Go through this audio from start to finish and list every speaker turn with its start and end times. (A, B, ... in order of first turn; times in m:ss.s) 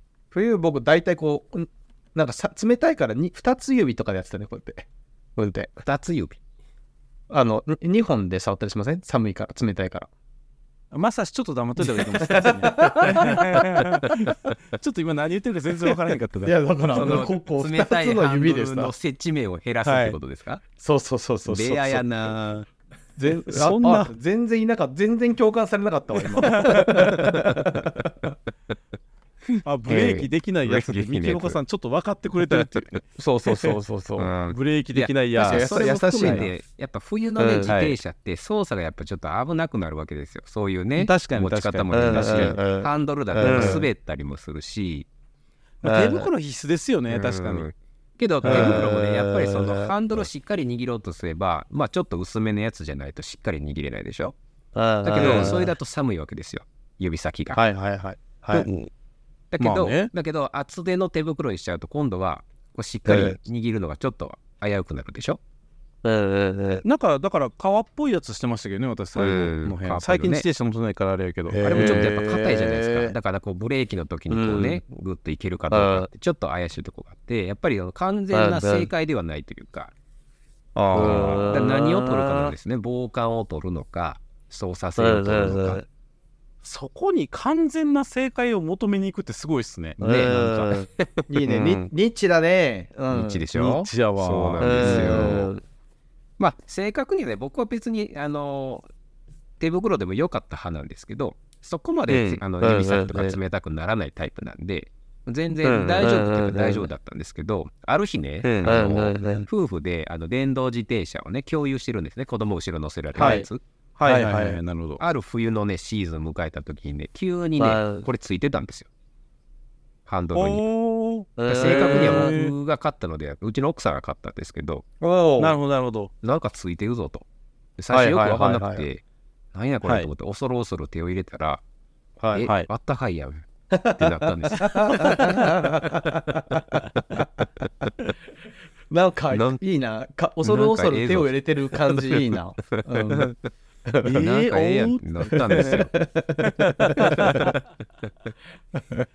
0:00.3-0:05.7 A
0:05.8-0:06.4 B
0:07.3-0:10.1 A
0:10.9-0:16.5 C
0:11.9-0:13.9 A
0:16.4-0:18.9 A
0:16.9-0:20.6 B
0:19.8-0:20.2 A
0:20.8-0:22.1 A
0:21.5-0:22.7 B
0:23.2-0:28.3 A
0:23.5-0:24.1 C
0:26.4-0:27.2 C
0:27.2-0:27.9 B
0:29.6-0:33.0 C
0:29.8-0:31.6 B
0:29.9-0:30.2 A
0:32.4-0:33.0 B
0:33.2-0:34.3 A
0:34.2-0:45.1 B
0:34.5-0:36.5 C
0:35.4-0:36.5 A
0:37.4-0:37.7 D
0:37.6-0:38.0 C
0:41.0-0:42.6 C
0:41.9-0:43.8 D
0:43.4-0:43.8 A
0:45.8-0:47.7 C
0:45.8-0:46.3 D
0:47.1-0:54.4 B
0:48.4-0:48.8 A
0:48.4-0:49.9 D
0:54.7-0:55.7 D
0:55.0-0:57.6 B
0:55.2-0:55.5 C
0:57.5-0:58.7 A
0:59.5-1:05.4 B
0:59.6-1:00.1 C
1:06.0-1:06.8 D
1:06.8-1:12.1 C
1:09.2-1:10.4 B
1:11.5-1:13.1 A
1:11.6-1:19.9 B
1:14.3-1:14.8 D
1:15.7-1:16.1 D
1:18.3-1:18.9 D
1:20.8-1:21.4 A
1:20.9-1:22.5 D
1:20.9-1:25.8 B
1:25.0-1:25.8 D
1:26.6-1:30.0 C
1:30.0-1:31.1 B
1:30.0-1:30.9 D
1:31.3-1:33.4 A
1:33.1-1:35.5 B
1:33.5-1:35.3 C
1:34.6-1:35.6 D
1:36.4-1:38.9 B
1:39.6-1:53.6 B
1:42.1-1:43.4 D
1:45.6-1:46.9 D
1:48.4-1:49.4 D
1:53.1-1:55.0 C
1:53.2-1:53.5 A
1:54.0-1:54.6 A
1:55.0-1:58.9 B
1:57.6-1:58.1 D
2:00.0-2:00.6 B
2:00.3-2:02.5 C
2:01.4-2:02.3 D
2:01.5-2:04.8 B
2:05.0-2:05.6 A
2:05.4-2:06.1 C
2:06.2-2:07.2 B
2:07.8-2:09.0 B
2:07.9-2:08.8 A
2:09.5-2:11.6 B
2:09.8-2:10.1 C
2:12.2-2:12.5 A
2:12.3-2:16.6 B
2:12.4-2:12.7 C
2:13.7-2:17.2 A
2:15.0-2:15.3 C
2:18.9-2:23.3 A
2:19.3-2:19.6 B
2:20.4-2:23.4 B
2:23.9-2:24.2 A
2:24.0-2:25.8 C
2:24.0-2:25.9 B
2:25.3-2:27.5 A
2:26.4-2:27.6 C
2:27.0-2:27.5 B
2:28.7-2:29.0 A